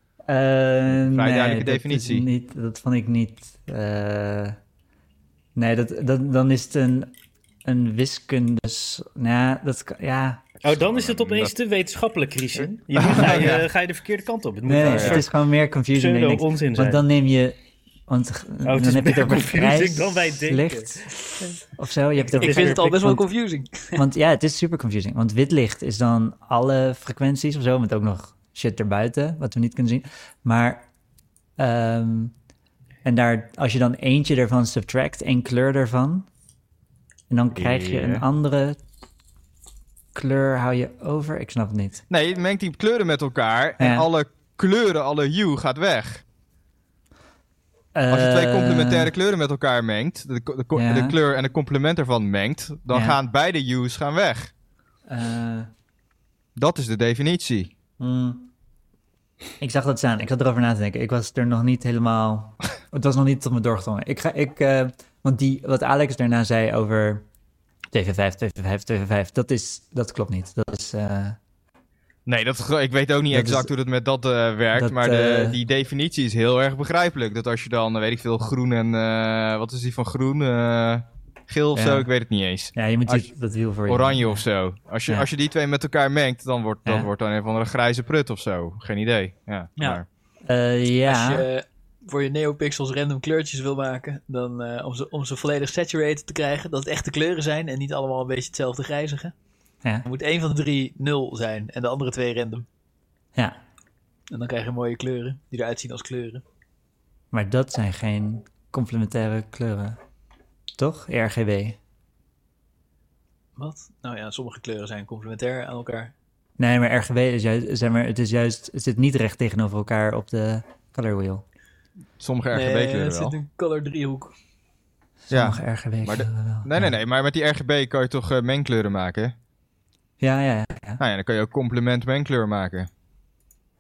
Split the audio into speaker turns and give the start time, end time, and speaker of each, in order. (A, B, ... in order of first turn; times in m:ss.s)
0:00.3-0:04.6 A
0:00.9-0:02.3 B
0:05.6-0:07.1 A
0:07.6-0:10.4 A
0:10.6-0:15.4 C
0:10.7-0:11.6 B
0:13.0-0:13.7 B
0:14.7-0:17.6 A
0:14.8-0:15.3 B
0:15.9-0:17.0 C
0:18.1-0:21.0 A
0:18.6-0:21.6 C
0:21.8-0:23.2 A
0:22.2-0:24.0 D
0:22.3-0:22.9 C
0:24.0-0:30.9 A
0:31.6-0:32.3 A
0:33.0-0:36.3 A
0:37.3-0:38.8 A
0:37.6-0:38.2 B
0:40.2-0:42.0 A
0:42.1-0:46.2 B
0:43.8-0:44.1 A
0:48.0-0:49.1 A
0:48.1-0:54.5 B
0:50.7-0:51.2 A
0:52.9-0:53.2 A
0:55.1-0:55.7 A
0:56.6-0:57.7 B
0:58.0-0:58.5 A
0:59.6-1:07.2 A
1:07.9-1:11.4 A
1:12.3-1:23.3 B
1:13.3-1:13.7 A
1:14.8-1:15.6 A
1:21.8-1:22.1 A
1:22.7-1:24.4 A
1:23.9-1:30.1 B
1:29.8-1:30.0 D
1:30.5-1:31.5 A
1:31.1-1:39.3 D
1:40.1-1:42.7 D
1:44.3-1:46.4 D
1:47.3-1:50.0 A
1:50.8-1:51.8 A
1:53.6-1:56.1 D
1:56.6-2:01.4 A
2:02.2-2:03.4 B
2:02.5-2:04.3 D
2:05.3-2:07.0 A
2:05.3-2:09.3 B
2:10.2-2:11.0 A
2:11.0-2:12.9 B